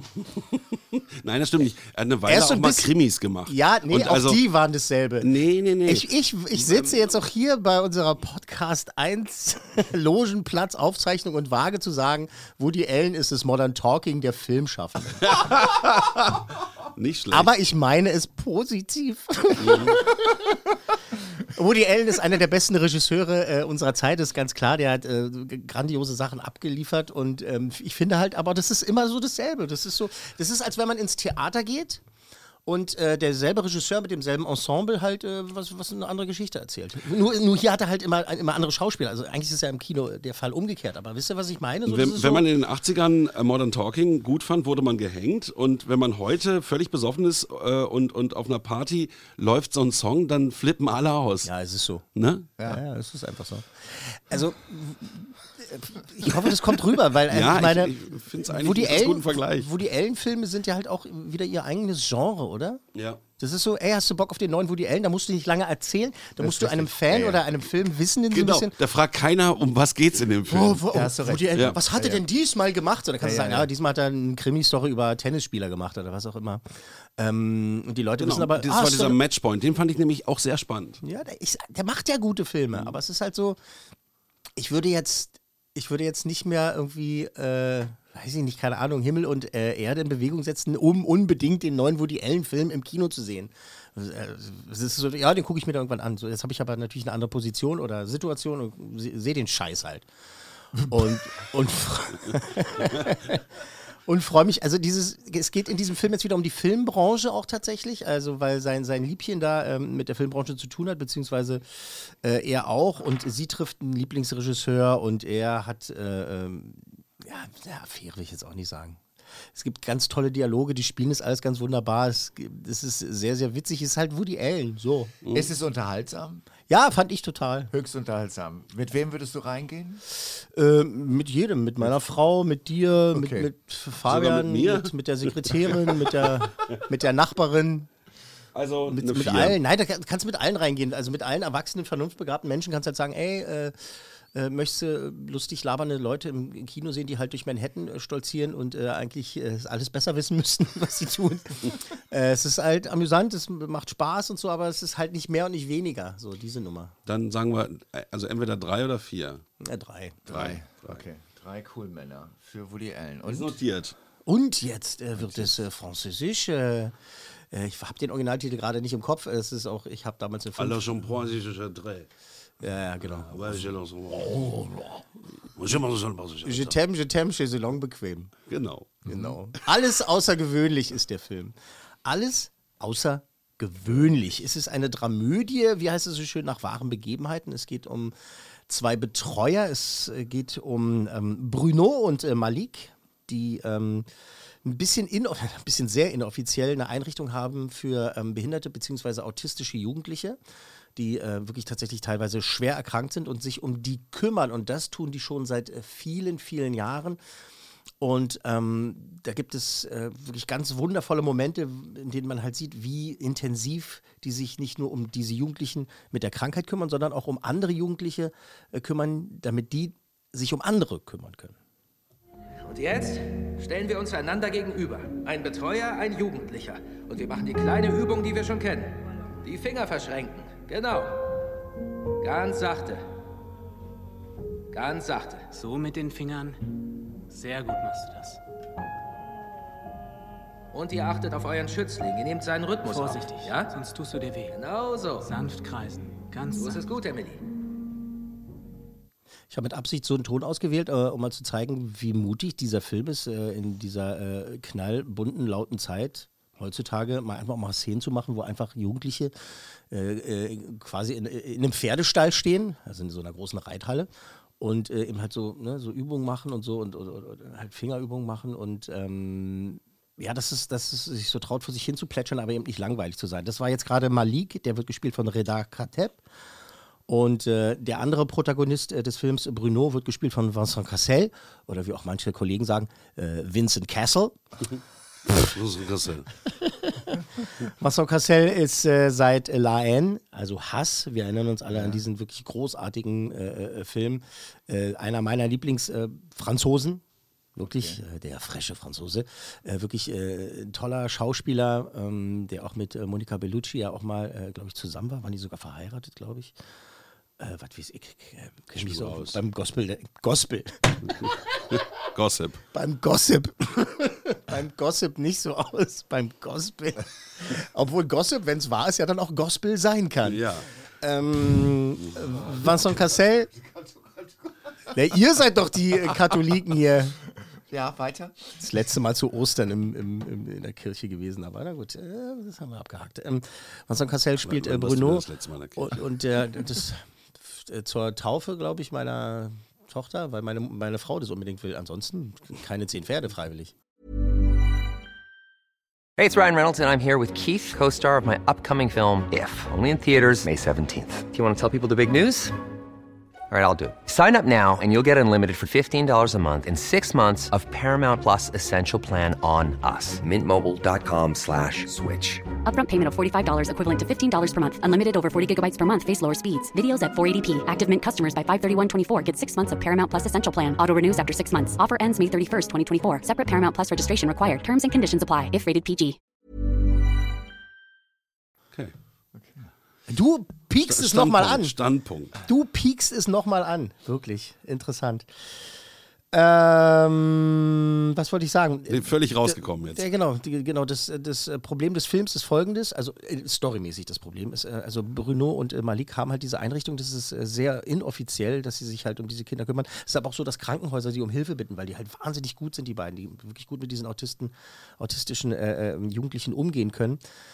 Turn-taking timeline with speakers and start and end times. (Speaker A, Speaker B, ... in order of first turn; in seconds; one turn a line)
Speaker A: 0.4-4.4
Speaker B: 2.3-2.9
Speaker B: 3.5-5.3
Speaker A: 5.2-7.2
Speaker B: 5.8-15.4
Speaker A: 15.2-16.4
Speaker A: 16.9-17.5
Speaker B: 17.3-20.6
Speaker A: 19.6-20.0
Speaker B: 21.5-32.0
Speaker B: 32.6-42.5
Speaker A: 41.9-51.5
Speaker B: 51.4-52.0
Speaker A: 52.1-52.5
Speaker B: 52.6-62.8
Speaker A: 57.3-59.7
Speaker A: 62.9-63.2
Speaker B: 63.4-68.7
Speaker C: 66.4-67.4
Speaker A: 68.3-70.8
Speaker C: 70.5-72.2
Speaker B: 70.5-76.6
Speaker C: 73.2-73.7
Speaker B: 77.2-79.2
Speaker A: 78.2-81.0
Speaker B: 81.0-83.6
Speaker B: 84.5-100.0
Speaker B: 100.8-103.4
Speaker B: 104.0-119.0
Speaker B: 119.5-125.2
Speaker A: 125.2-125.5
Speaker C: 125.3-126.5
Speaker B: 126.7-127.7
Speaker C: 127.7-130.0
Speaker B: 130.2-137.9
Speaker C: 133.1-133.5
Speaker A: 134.1-136.8
Speaker A: 138.5-139.6
Speaker B: 138.9-143.7
Speaker B: 144.3-156.9
Speaker A: 157.1-159.4
Speaker B: 159.6-160.2
Speaker C: 160.2-163.6
Speaker A: 160.3-161.0
Speaker A: 163.2-163.9
Speaker B: 164.2-166.9
Speaker B: 167.5-170.9
Speaker A: 170.6-172.1
Speaker B: 172.6-175.0
Speaker A: 173.0-174.6
Speaker A: 175.6-176.8
Speaker B: 176.4-178.3
Speaker A: 178.5-179.0
Speaker C: 179.1-179.3
Speaker B: 179.1-188.1
Speaker B: 188.7-194.1
Speaker B: 194.6-200.4
Speaker B: 200.9-207.2
Speaker B: 208.0-221.6
Speaker D: 222.6-231.2
Speaker D: 232.2-233.0
Speaker D: 234.7-235.5
Speaker E: 235.5-236.6
Speaker E: 237.3-238.4
Speaker D: 240.7-243.8
Speaker E: 242.8-244.6
Speaker D: 244.5-245.4
Speaker E: 245.2-246.9
Speaker D: 246.5-247.4
Speaker B: 249.5-259.3
Speaker B: 259.9-264.1
Speaker B: 264.6-276.2
Speaker B: 277.1-284.4
Speaker A: 285.3-286.3
Speaker B: 286.6-297.0
Speaker C: 291.7-292.0
Speaker B: 297.6-306.5
Speaker C: 297.6-298.0
Speaker B: 307.4-311.3
Speaker A: 308.7-309.4
Speaker A: 311.7-312.6
Speaker B: 312.7-320.4
Speaker A: 320.2-320.7
Speaker B: 321.0-323.5
Speaker B: 324.9-327.2
Speaker C: 327.7-328.6
Speaker B: 328.6-343.7
Speaker A: 334.4-336.0
Speaker F: 346.2-352.5
Speaker F: 353.5-362.4
Speaker G: 362.6-376.2
Speaker C: 379.4-379.7
Speaker B: 380.1-381.8
Speaker A: 380.9-382.3
Speaker B: 382.4-385.3
Speaker B: 386.3-407.2
Speaker A: 388.9-390.0